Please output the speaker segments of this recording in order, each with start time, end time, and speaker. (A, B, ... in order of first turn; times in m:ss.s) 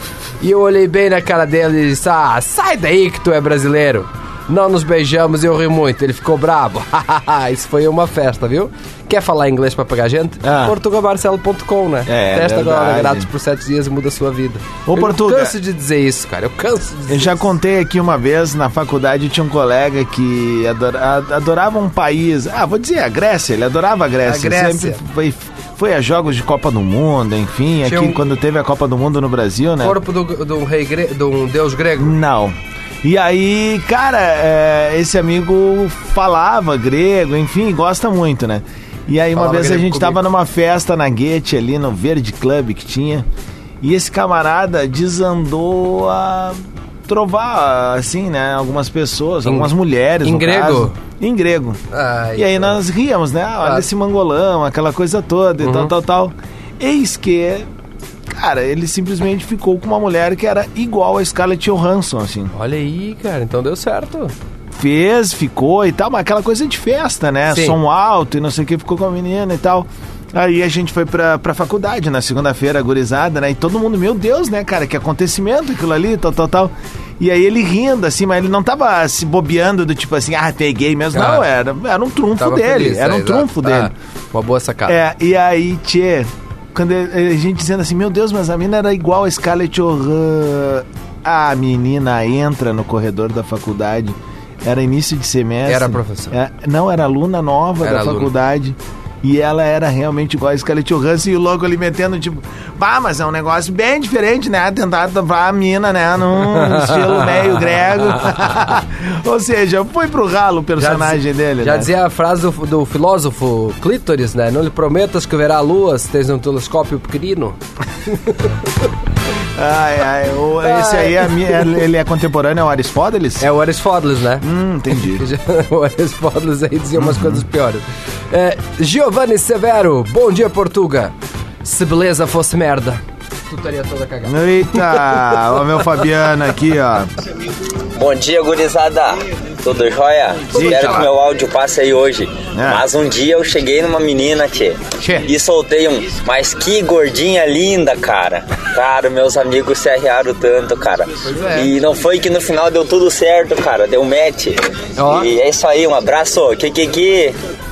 0:00.4-0:17.4 A
0:10.4-0:10.8 B
0:12.1-0:13.3 B
0:14.8-0:15.6 B
0:17.1-0:30.0 B
0:24.2-0:25.0 A
0:27.8-0:28.2 A
0:29.8-0:32.2 A
0:32.0-0:43.2 B
0:39.3-0:40.2 A
0:43.8-0:51.8 B
0:49.4-0:49.7 A
0:50.2-0:51.0 A
0:51.9-0:52.8 A
0:52.4-0:57.7 B
0:55.6-0:55.9 A
0:58.3-1:02.5 B
1:02.5-1:04.3 A
1:04.7-1:23.9 B
1:07.5-1:07.8 A
1:21.1-1:21.5 A
1:22.4-1:25.0 A
1:24.9-1:51.9 B
1:35.6-1:36.4 A
1:37.8-1:38.3 A
1:46.6-1:47.3 A
1:50.8-1:57.6 A
1:58.1-1:58.5 A
1:59.5-2:03.5 B
2:00.6-2:01.7 A
2:03.4-2:04.4 A
2:04.4-2:05.2 B
2:05.0-2:11.1 A
2:07.0-2:07.4 B
2:11.6-2:15.2 A
2:14.2-2:17.1 B
2:17.9-2:37.4 C
2:20.5-2:21.1 B
2:20.5-2:21.1 A
2:22.5-2:22.8 B
2:25.0-2:25.3 A
2:31.2-2:31.7 A
2:35.0-2:35.3 A